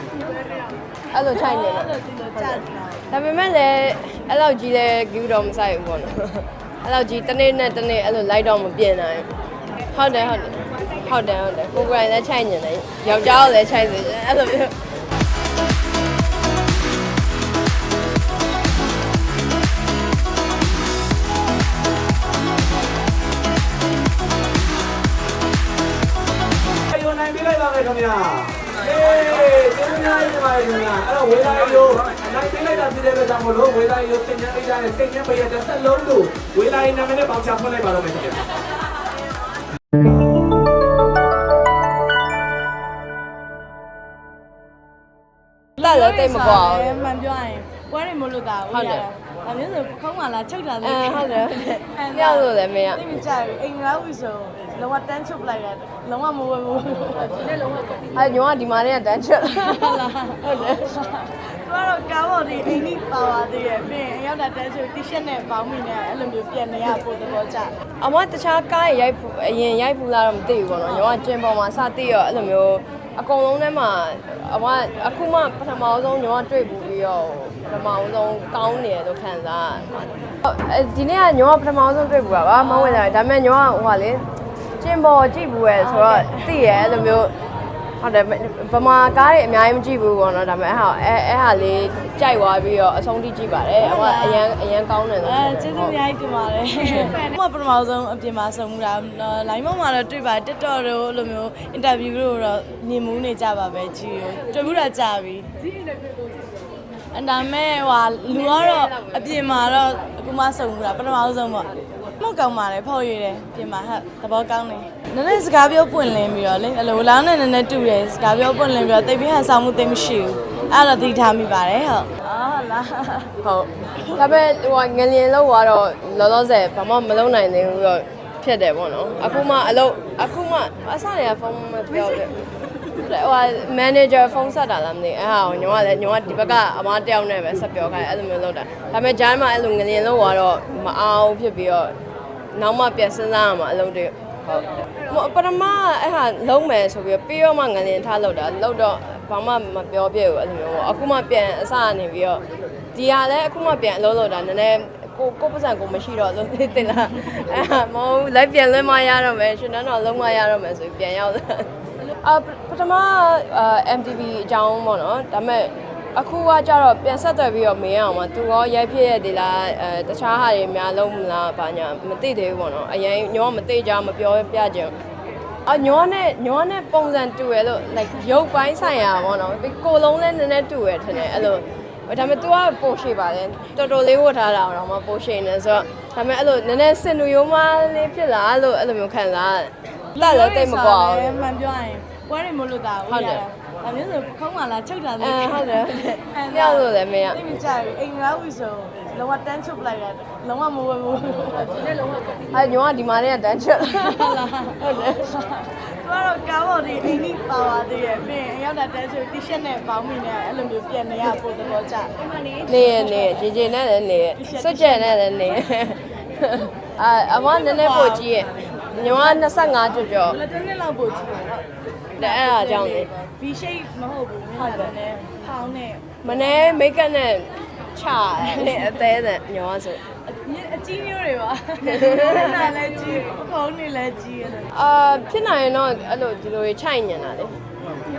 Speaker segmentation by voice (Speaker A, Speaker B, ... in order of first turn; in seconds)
Speaker A: 0.3-3.0, 45.8-57.9, 59.5-67.8, 70.8-71.2, 82.5-83.2, 85.8-86.6, 93.8-94.5, 95.2-105.5, 107.1-123.3, 190.2-202.2, 203.8-213.5, 214.4-215.6, 217.4-226.8, 228.4-229.1, 230.2-234.7
Speaker B: 1.1-9.3, 9.9-14.8, 45.8-47.1, 48.7-49.1, 50.8-53.0, 58.1-60.9, 68.0-84.3, 84.8-87.3, 88.0-95.9, 108.6-109.2, 123.4-132.4, 133.0-141.9, 142.5-152.4, 152.9-161.7, 162.2-174.9, 175.7-191.4, 193.1-193.4, 195.2-197.4, 202.5-205.3, 212.7-220.4, 222.2-223.1, 226.2-230.0, 231.8-232.7, 234.7-237.6
Speaker C: 26.9-38.5